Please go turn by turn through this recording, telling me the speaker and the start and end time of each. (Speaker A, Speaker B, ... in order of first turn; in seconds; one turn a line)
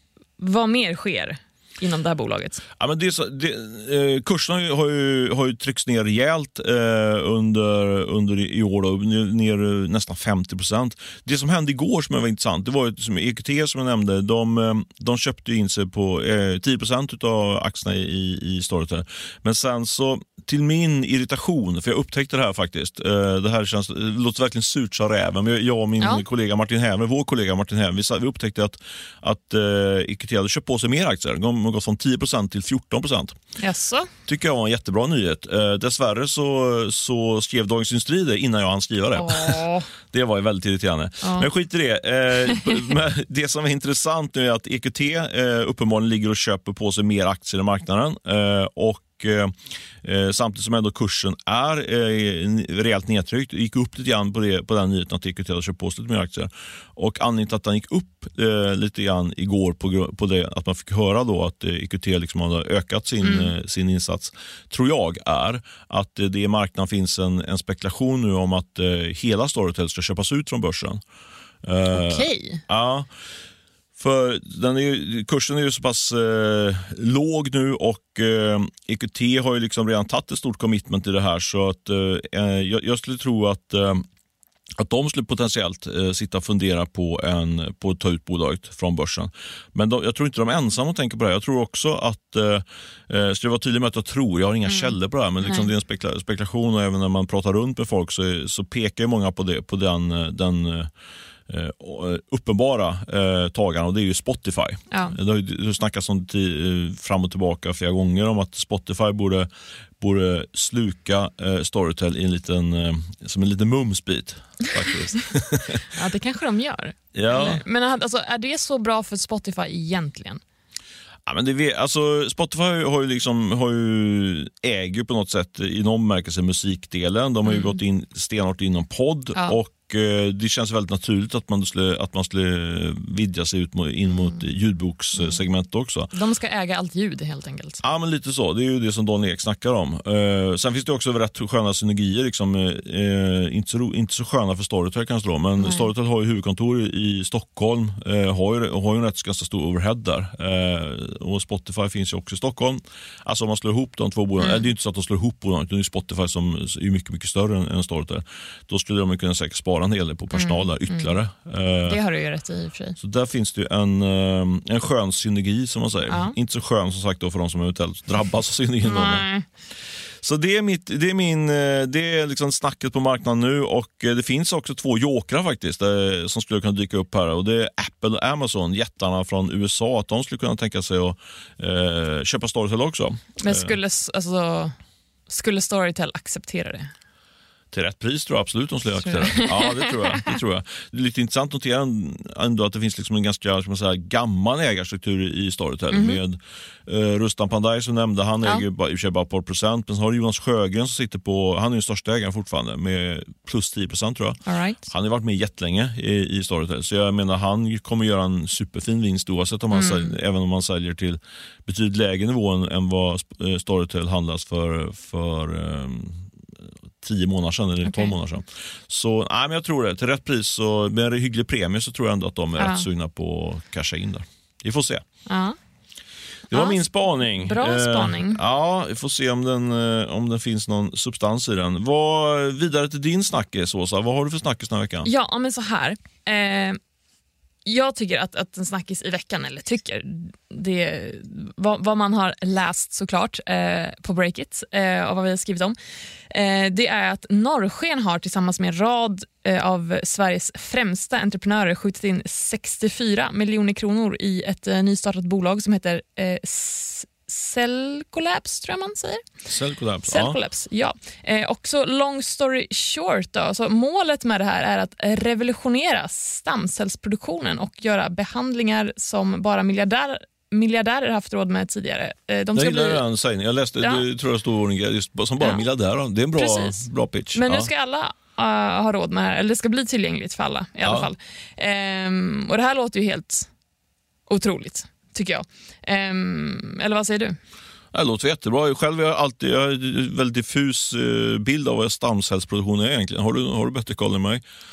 Speaker A: 0.4-2.6
Speaker B: 2.8-33.4
Speaker A: 33.6-34.1
Speaker B: 34.3-71.0
Speaker A: 39.1-39.9
Speaker A: 41.2-41.5
Speaker A: 63.2-63.5
Speaker B: 71.6-73.1
Speaker A: 71.9-72.6
Speaker B: 74.0-84.0
Speaker B: 84.8-100.9
Speaker A: 95.4-95.7
Speaker B: 101.5-109.5
Speaker A: 104.9-105.2
Speaker B: 110.0-115.8
Speaker A: 115.9-120.4
Speaker B: 117.1-117.6
Speaker B: 121.2-136.1
Speaker A: 127.5-127.7
Speaker A: 136.1-137.8
Speaker B: 137.8-162.0
Speaker A: 160.3-161.1
Speaker A: 161.8-163.0
Speaker B: 163.0-169.2
Speaker A: 166.1-166.3
Speaker A: 168.8-169.4
Speaker B: 170.2-183.8
Speaker A: 183.4-184.7
Speaker A: 185.3-186.9
Speaker B: 187.7-225.0
Speaker A: 189.0-190.3
Speaker A: 195.9-196.2
Speaker A: 204.4-204.8
Speaker A: 209.7-210.1
Speaker A: 217.8-218.1
Speaker A: 222.6-222.8
Speaker A: 225.3-225.6
Speaker B: 226.5-235.1
Speaker A: 227.4-228.4
Speaker A: 235.0-236.8
Speaker A: 237.6-245.8
Speaker A: 246.3-259.2
Speaker B: 259.5-260.4
Speaker A: 260.1-273.0
Speaker B: 272.5-277.7
Speaker A: 276.4-283.5
Speaker B: 280.8-281.1
Speaker A: 284.3-287.4
Speaker B: 287.9-294.4